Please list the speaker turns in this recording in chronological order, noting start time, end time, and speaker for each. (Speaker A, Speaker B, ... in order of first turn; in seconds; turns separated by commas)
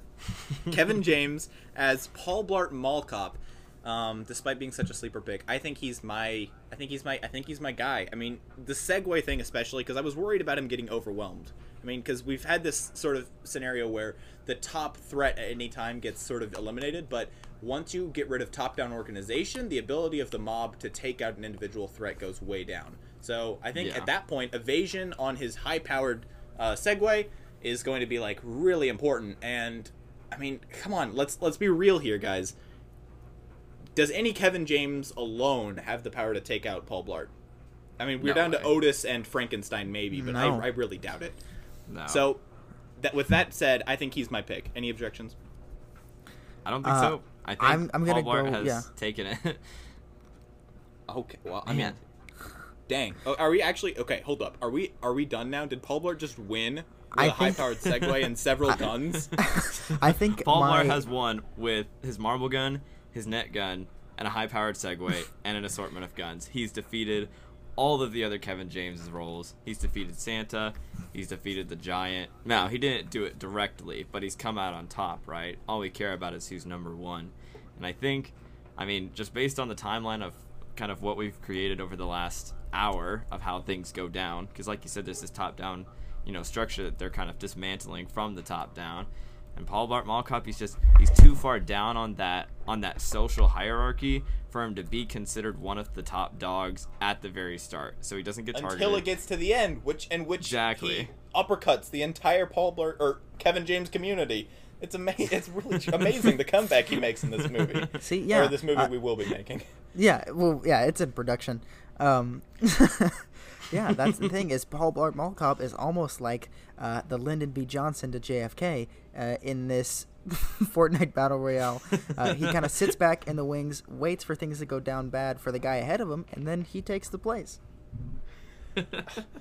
Speaker A: 0.7-32.5, Speaker B: 23.8-24.1, Speaker A: 34.0-37.3, Speaker A: 38.0-41.4, Speaker B: 38.2-38.8, Speaker C: 40.1-40.6, Speaker B: 41.9-42.3, Speaker A: 42.1-42.4, Speaker A: 43.0-45.4, Speaker B: 46.6-49.6, Speaker C: 46.8-48.9, Speaker A: 51.1-52.0, Speaker B: 51.6-52.0, Speaker A: 52.9-59.4, Speaker C: 57.1-57.6, Speaker B: 57.9-58.2, Speaker C: 59.4-61.0, Speaker B: 59.7-99.1, Speaker A: 98.5-109.7, Speaker B: 100.4-101.1, Speaker C: 108.0-108.9, Speaker C: 109.9-127.6, Speaker B: 122.0-122.5